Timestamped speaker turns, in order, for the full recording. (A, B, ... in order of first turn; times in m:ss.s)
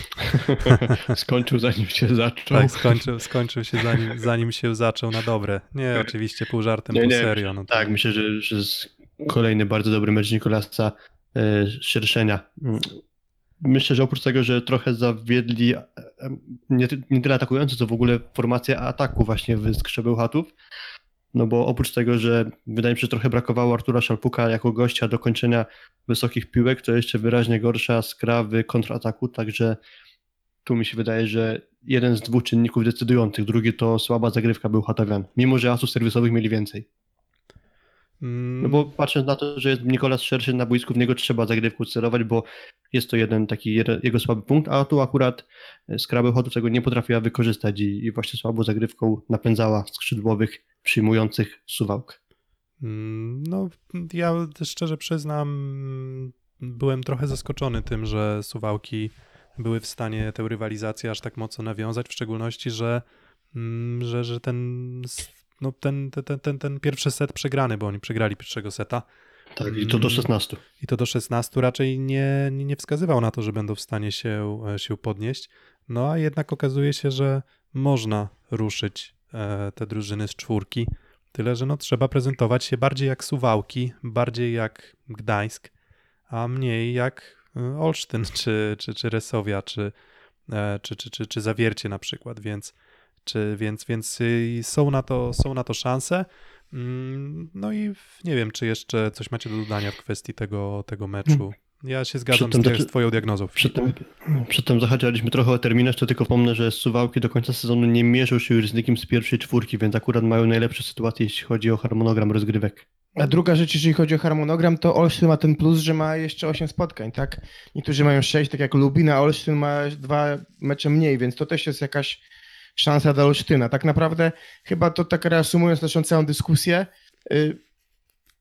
0:00.3-0:03.0 A
0:00.6-0:01.0 B
0:02.5-0:07.9 B
0:03.8-0:04.2 A
0:06.9-0:13.0 A
0:13.6-0:20.5 A
0:21.3-0:29.8 A
0:30.6-0:36.9 A
0:38.2-0:38.9 B
0:38.6-0:52.2 A
0:52.8-1:03.0 B
1:03.5-1:09.0 B
1:09.6-1:10.6 A
1:09.6-1:10.3 B
1:10.8-1:25.7 B
1:26.3-1:29.9 B
1:30.5-1:43.9 B
1:42.3-1:42.9 A
1:43.6-1:52.9 A
1:53.2-2:02.2 C
2:02.8-2:07.6 C